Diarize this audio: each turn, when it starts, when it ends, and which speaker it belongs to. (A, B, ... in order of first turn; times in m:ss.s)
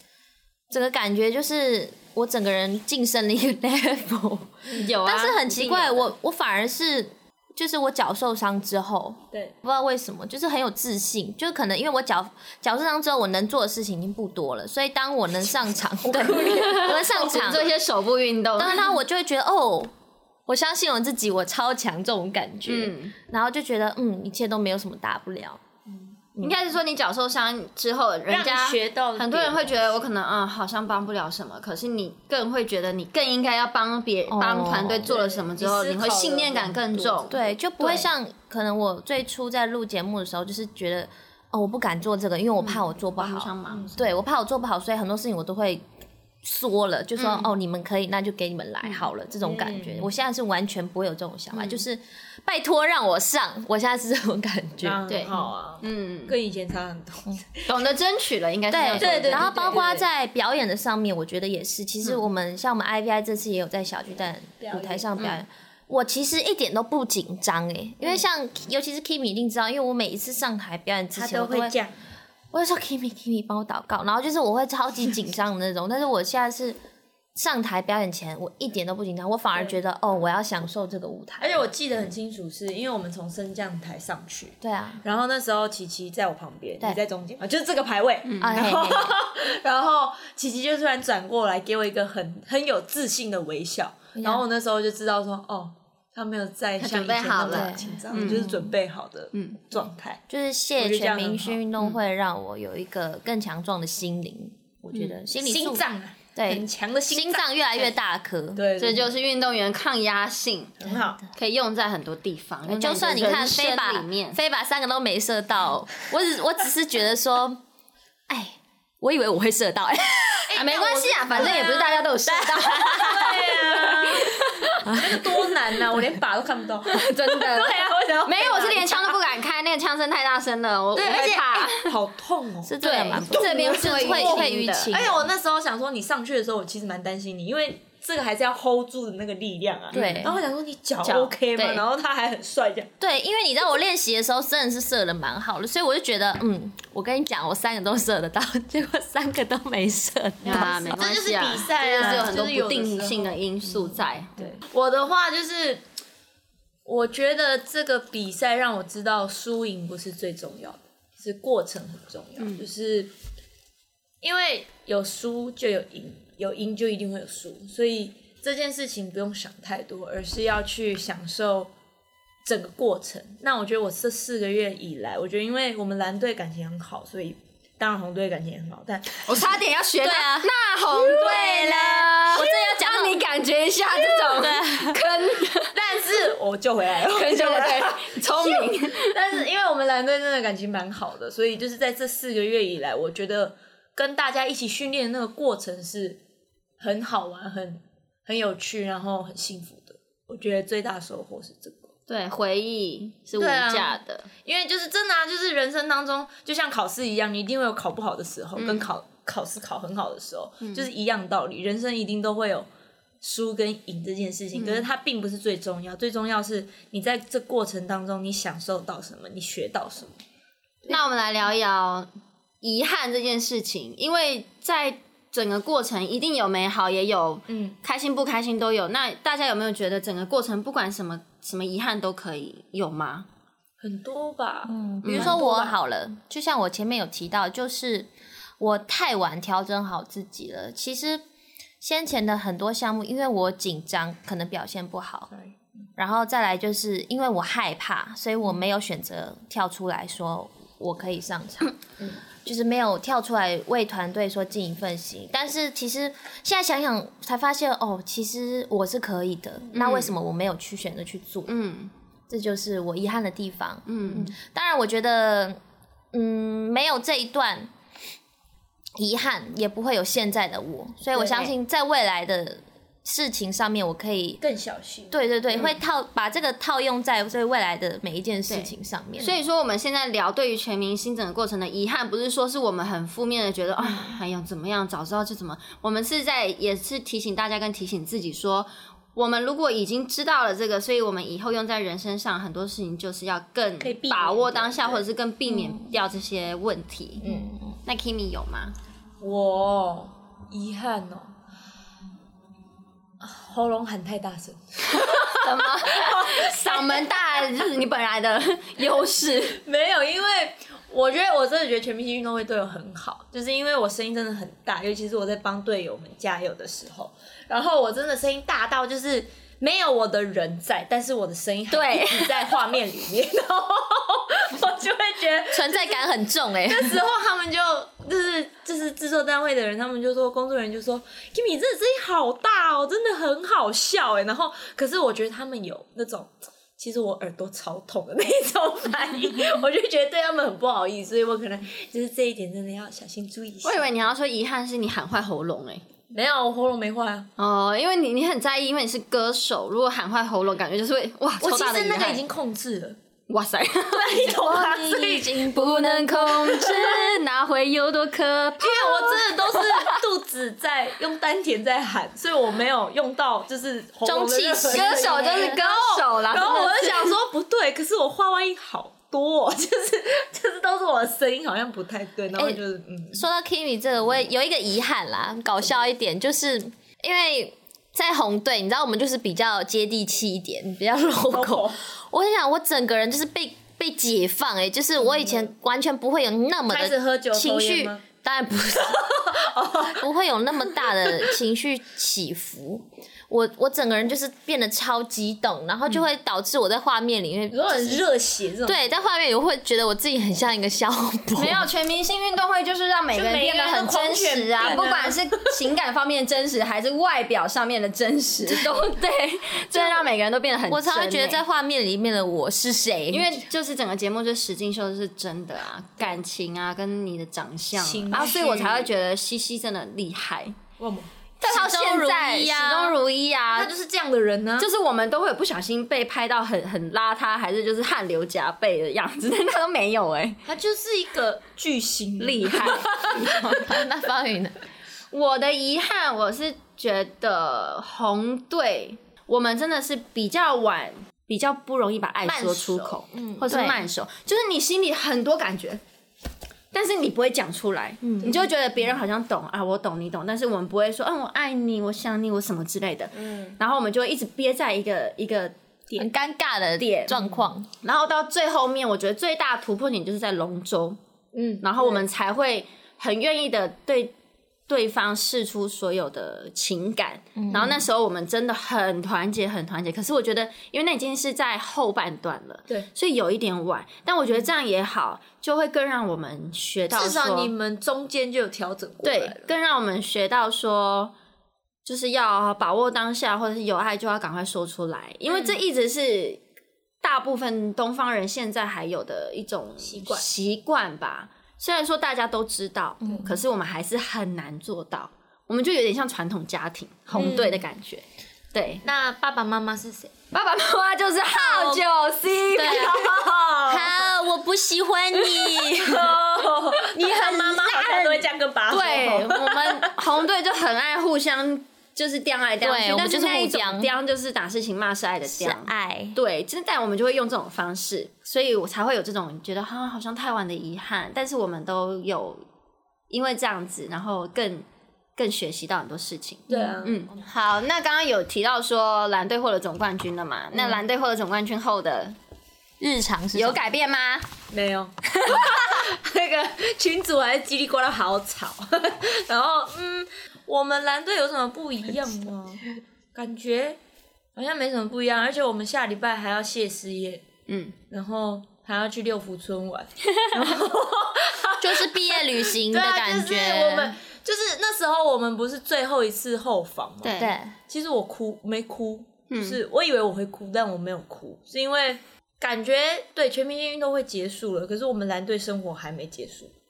0:00.7-0:17.7 A
0:04.7-0:06.0 B
0:16.0-0:17.4 C
0:16.4-0:18.9 B
0:18.6-0:19.9 A
0:20.5-0:25.6 A
0:22.7-0:23.1 B
0:25.9-0:26.6 C
0:26.4-0:38.1 B
0:28.3-0:30.0 C
0:34.3-0:35.2 A
0:35.1-0:37.5 C
0:37.3-0:45.8 A
0:42.6-0:43.9 B
0:43.7-0:44.0 C
0:46.4-0:55.4 A
0:47.2-0:47.5 B
0:49.4-0:50.1 C
0:51.5-0:51.8 B
0:54.8-0:57.7 C
0:55.1-0:56.4 B
0:57.7-0:59.8 B
0:58.7-1:11.7 A
0:59.0-1:00.0 C
1:04.6-1:05.1 C
1:11.1-1:11.9 C
1:12.5-1:16.8 A
1:17.4-1:21.7 A
1:21.4-1:40.2 C
1:24.6-1:25.0 A
1:28.2-1:28.6 B
1:28.4-1:29.2 A
1:34.2-1:34.4 A
1:36.8-1:38.5 B
1:37.4-1:38.7 A
1:39.3-1:39.6 B
1:40.3-1:45.8 A
1:40.8-1:41.6 C
1:45.4-1:47.9 C
1:46.4-1:48.6 A
1:48.6-1:49.1 C
1:48.8-1:50.8 B
1:50.8-1:51.2 C
1:51.3-1:54.4 B
1:52.7-1:57.6 A
1:58.3-2:00.5 A
2:00.5-2:09.2 C
2:00.5-2:04.8 B
2:01.4-2:01.8 A
2:02.3-2:03.2 A
2:04.8-2:05.2 A
2:06.9-2:11.9 B
2:10.9-2:22.9 C
2:12.6-2:15.2 A
2:12.8-2:15.0 B
2:19.9-2:20.4 A
2:19.9-2:20.3 B
2:21.0-2:21.8 B
2:23.0-2:30.9 A
2:30.4-2:34.6 B
2:30.4-2:33.4 C
2:34.4-2:35.8 C
2:36.8-2:43.1 C
2:42.4-2:42.6 B
2:44.2-2:51.7 C
2:52.4-2:59.4 C
2:59.2-3:05.8 B
3:00.0-3:00.5 A
3:01.1-3:01.7 C
3:01.3-3:03.2 A
3:02.3-3:02.7 C
3:04.1-3:05.0 A
3:05.7-3:16.2 C
3:07.1-3:09.1 B
3:16.8-3:21.9 C
3:22.1-3:24.3 B
3:23.4-3:32.7 C
3:28.6-3:28.9 B
3:33.2-3:40.1 C
3:34.5-3:34.8 B
3:40.9-3:42.1 B
3:42.6-3:53.3 B
3:47.5-3:47.8 C
3:53.8-3:55.8 C
3:54.7-4:01.2 A
3:55.0-3:55.4 B
4:01.8-4:05.3 A
4:06.0-4:11.8 A
4:12.4-4:21.5 A
4:19.7-4:20.1 B
4:21.5-4:21.9 B
4:22.3-4:25.6 A
4:23.9-4:24.3 B
4:26.1-4:27.7 A
4:29.0-4:34.4 A
4:34.4-4:35.8 C
4:35.1-4:39.4 A
4:38.5-4:57.3 B
4:53.8-4:55.0 C
4:57.2-4:57.5 C
4:57.8-4:58.7 B
4:59.2-5:01.3 C
5:03.2-5:07.5 C
5:04.9-5:09.6 B
5:09.6-5:43.9 C
5:21.7-5:22.5 B
5:25.5-5:27.0 A
5:43.6-5:45.8 B
5:46.1-5:47.3 C
5:47.4-5:52.2 B
5:51.4-5:53.0 C
5:53.3-5:54.8 B
5:54.0-5:55.3 C
5:54.2-5:57.0 A
5:55.4-6:00.0 B
5:58.6-6:13.2 C
6:04.0-6:05.6 A
6:04.7-6:07.2 B
6:12.3-6:12.6 A
6:13.1-6:38.0 A
6:21.3-6:21.8 C
6:25.1-6:25.5 C
6:26.7-6:28.0 C
6:28.9-6:30.0 C
6:31.0-6:31.3 C
6:37.5-6:38.9 C
6:38.6-6:41.7 A
6:41.4-6:51.4 B
6:43.1-6:45.5 C
6:48.5-6:48.8 A
6:49.7-6:50.1 A
6:50.7-6:53.4 A
6:53.1-7:00.6 B
6:57.7-6:58.9 C
7:00.8-7:01.1 C
7:01.4-7:03.7 B
7:01.4-7:03.0 A
7:03.5-7:04.7 C
7:04.6-7:10.4 B
7:10.4-7:13.6 C
7:12.2-7:13.6 B
7:13.1-7:14.6 A
7:15.1-7:25.8 B
7:22.2-7:23.5 C
7:23.5-7:23.8 A
7:26.7-7:36.1 B
7:28.0-7:28.5 C
7:33.2-7:33.6 C
7:36.0-7:37.7 A
7:36.8-7:41.0 B
7:41.3-7:42.0 C
7:41.6-7:44.1 B
7:44.7-7:57.5 B
7:47.4-7:47.8 A
7:56.9-7:59.5 C
7:59.0-8:01.1 B
8:01.8-8:06.4 B
8:07.0-8:18.8 B
8:09.8-8:10.2 C
8:13.0-8:13.3 A
8:17.1-8:17.6 C
8:18.8-8:20.1 C
8:20.3-8:23.3 B
8:21.3-8:21.8 A
8:22.5-8:23.1 A
8:22.8-8:24.1 C
8:23.6-8:26.2 A
8:25.7-8:30.0 C
8:27.0-8:28.2 B
8:27.3-8:27.9 A
8:28.7-8:42.4 B
8:32.6-8:33.9 A
8:35.3-8:36.2 A
8:43.1-8:52.2 B
8:46.5-8:47.1 C
8:52.8-8:53.6 A
8:53.3-8:54.3 B
8:54.5-9:03.8 C
8:55.1-8:55.7 B
9:04.3-9:07.2 C
9:07.5-9:07.7 B
9:07.9-9:26.5 C
9:11.6-9:14.0 A
9:17.0-9:17.3 B
9:17.2-9:17.5 A
9:19.3-9:19.6 B